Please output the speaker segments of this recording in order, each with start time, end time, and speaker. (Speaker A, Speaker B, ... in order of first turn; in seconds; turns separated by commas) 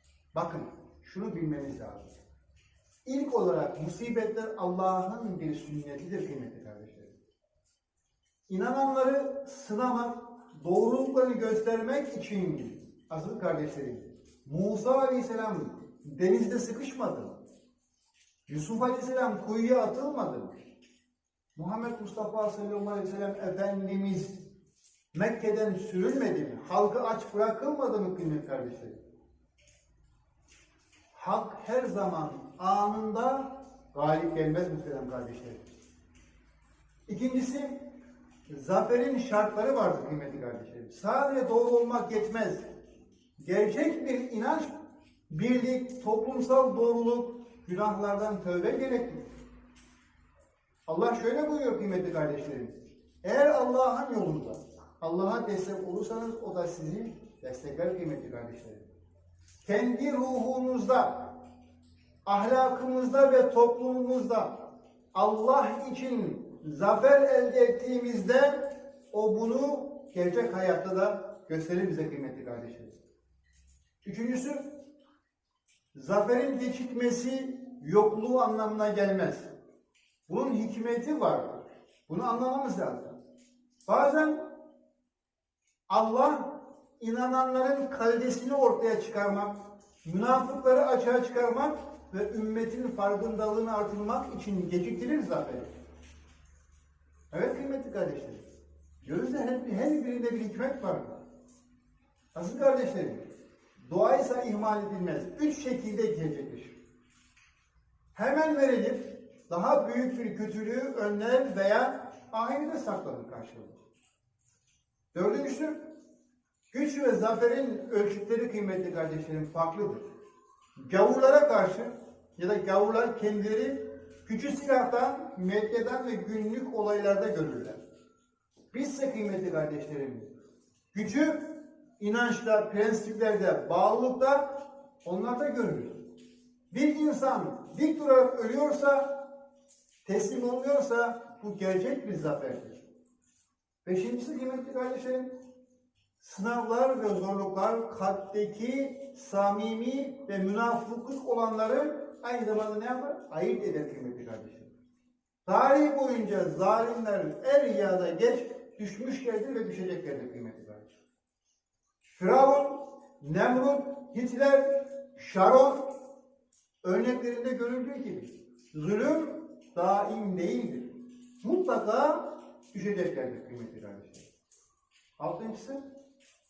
Speaker A: 0.3-2.2, Speaker A: 3.0-7.2, Speaker A: 8.5-17.4, Speaker A: 18.5-20.6, Speaker A: 21.6-24.5, Speaker A: 25.1-29.0, Speaker A: 31.1-35.6, Speaker A: 37.1-37.9, Speaker A: 38.5-42.7, Speaker A: 43.4-44.8, Speaker A: 45.3-49.3, Speaker A: 50.9-58.9, Speaker A: 59.6-61.4, Speaker A: 62.3-73.0, Speaker A: 74.0-74.7, Speaker A: 75.9-79.5, Speaker A: 80.3-83.2, Speaker A: 83.9-84.5, Speaker A: 85.9-95.7, Speaker A: 97.3-98.4, Speaker A: 99.0-101.2, Speaker A: 102.3-106.8, Speaker A: 108.1-113.8, Speaker A: 115.1-115.9, Speaker A: 116.7-120.0, Speaker A: 120.8-127.8, Speaker A: 128.7-130.3, Speaker A: 130.9-136.1, Speaker A: 136.7-139.3, Speaker A: 140.1-142.8, Speaker A: 143.8-145.4, Speaker A: 146.2-154.7, Speaker A: 155.4-160.9, Speaker A: 162.2-166.0, Speaker A: 166.8-174.3, Speaker A: 175.2-175.8